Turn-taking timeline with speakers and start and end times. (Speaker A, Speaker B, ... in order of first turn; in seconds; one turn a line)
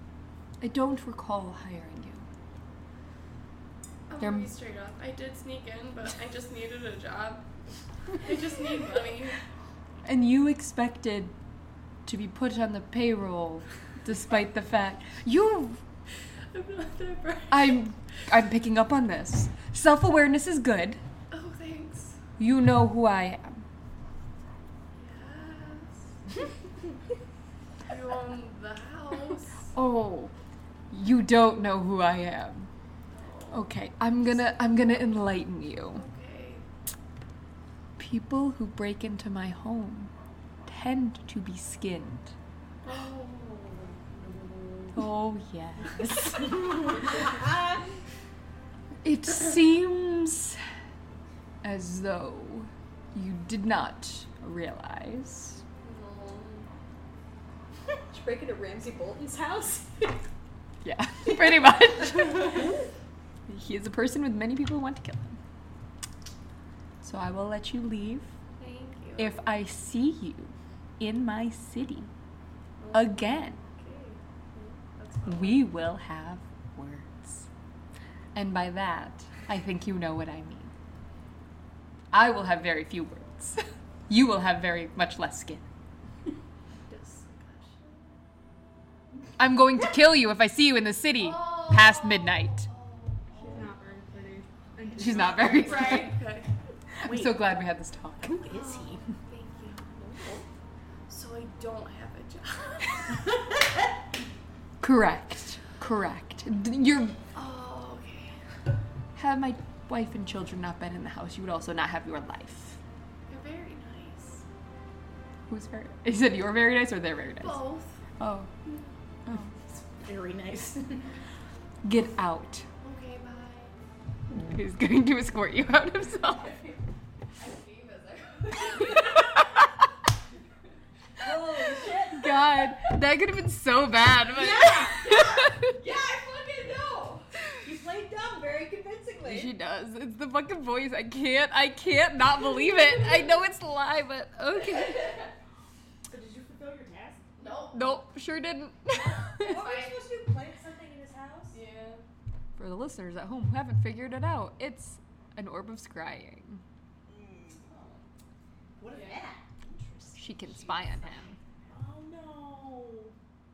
Speaker A: 0.6-2.2
Speaker B: 4.1-7.5
Speaker A: 4.2-4.5
Speaker B: 8.1-9.4
Speaker A: 10.0-11.3
Speaker A: 12.1-15.8
Speaker B: 16.5-17.8
Speaker A: 17.5-21.0
Speaker B: 21.3-22.2
Speaker A: 22.4-23.6
Speaker B: 24.9-26.0
Speaker B: 27.9-29.7
Speaker A: 29.7-30.3
Speaker A: 30.9-32.7
Speaker B: 33.1-33.6
Speaker A: 33.5-36.0
Speaker B: 35.9-36.6
Speaker A: 38.0-40.1
Speaker A: 40.7-42.3
Speaker B: 42.8-45.0
Speaker A: 44.9-47.1
Speaker A: 49.0-50.6
Speaker A: 51.6-55.6
Speaker B: 55.8-56.7
Speaker C: 58.1-60.2
Speaker A: 60.8-62.7
Speaker A: 63.5-65.4
Speaker A: 67.0-68.3
Speaker B: 68.5-69.4
Speaker A: 69.2-72.1
Speaker B: 72.8-75.7
Speaker A: 72.9-73.6
Speaker A: 75.2-77.5
Speaker A: 78.3-80.7
Speaker A: 82.1-85.6
Speaker B: 86.9-88.0
Speaker A: 89.4-92.7
Speaker B: 91.2-93.7
Speaker D: 93.5-96.0
Speaker A: 95.0-96.2
Speaker B: 95.1-96.5
Speaker A: 97.0-98.4
Speaker E: 97.0-97.5
Speaker E: 98.3-99.0
Speaker B: 98.4-100.4
Speaker B: 101.1-103.1
Speaker A: 104.8-107.2
Speaker B: 107.3-108.3
Speaker A: 109.2-112.8
Speaker B: 113.3-114.4
Speaker A: 115.5-118.5
Speaker B: 117.4-117.9
Speaker A: 119.2-119.8
Speaker E: 120.0-121.0
Speaker A: 121.8-122.7
Speaker B: 122.8-123.7
Speaker A: 124.3-126.6
Speaker B: 127.4-129.5
Speaker A: 129.4-129.6
Speaker C: 131.2-132.3
Speaker A: 132.1-135.8
Speaker E: 134.4-134.7
Speaker B: 134.7-137.3
Speaker C: 137.6-139.5
Speaker A: 139.2-145.2
Speaker B: 144.7-145.3
Speaker E: 146.1-147.2
Speaker B: 147.4-148.0
Speaker A: 147.7-149.6
Speaker B: 148.9-150.1
Speaker C: 149.4-151.5
Speaker E: 150.2-151.1
Speaker B: 151.5-152.0
Speaker A: 152.6-156.6
Speaker C: 157.1-157.6
Speaker B: 157.6-158.0
Speaker E: 158.8-159.4
Speaker B: 158.9-159.2
Speaker C: 159.7-160.1
Speaker A: 160.1-161.3
Speaker E: 161.7-163.1